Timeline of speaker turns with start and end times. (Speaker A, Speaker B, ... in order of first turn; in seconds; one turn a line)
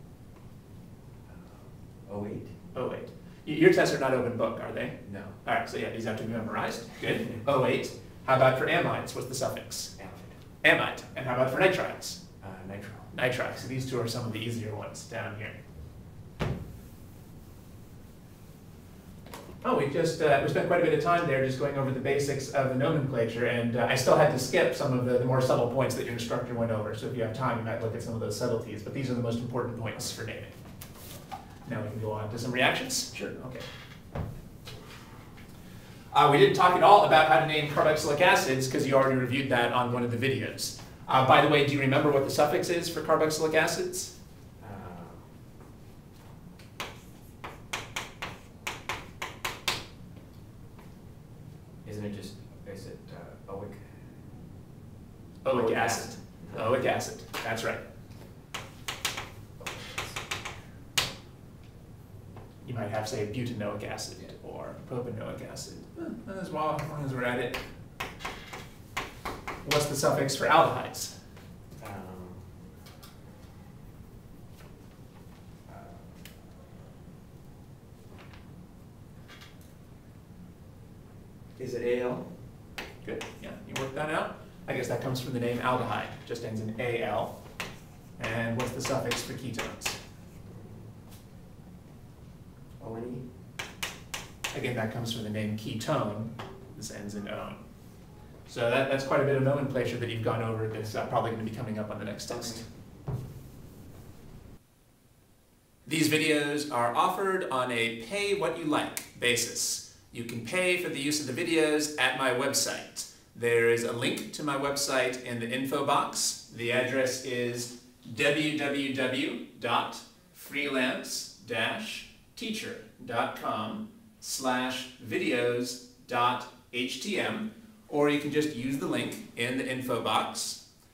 Speaker A: 1.2-2.5
Speaker B: 2.7-10.0
Speaker A: 5.0-5.4
Speaker A: 10.0-10.4
Speaker B: 10.6-12.2
Speaker A: 12.4-13.1
Speaker B: 13.1-15.6
Speaker B: 19.6-30.5
Speaker B: 31.6-33.7
Speaker B: 36.1-44.1
Speaker A: 44.6-45.3
Speaker A: 51.8-54.0
Speaker B: 55.4-57.8
Speaker A: 55.5-56.9
Speaker A: 59.6-60.4
Speaker B: 62.6-67.6
Speaker B: 69.6-71.1
Speaker A: 71.8-72.5
Speaker A: 75.7-76.1
Speaker A: 81.6-82.3
Speaker B: 83.0-87.3
Speaker B: 88.2-90.0
Speaker A: 90.5-90.8
Speaker A: 92.8-93.2
Speaker B: 94.5-97.6
Speaker B: 98.5-102.6
Speaker A: 102.3-102.6
Speaker B: 105.8-130.6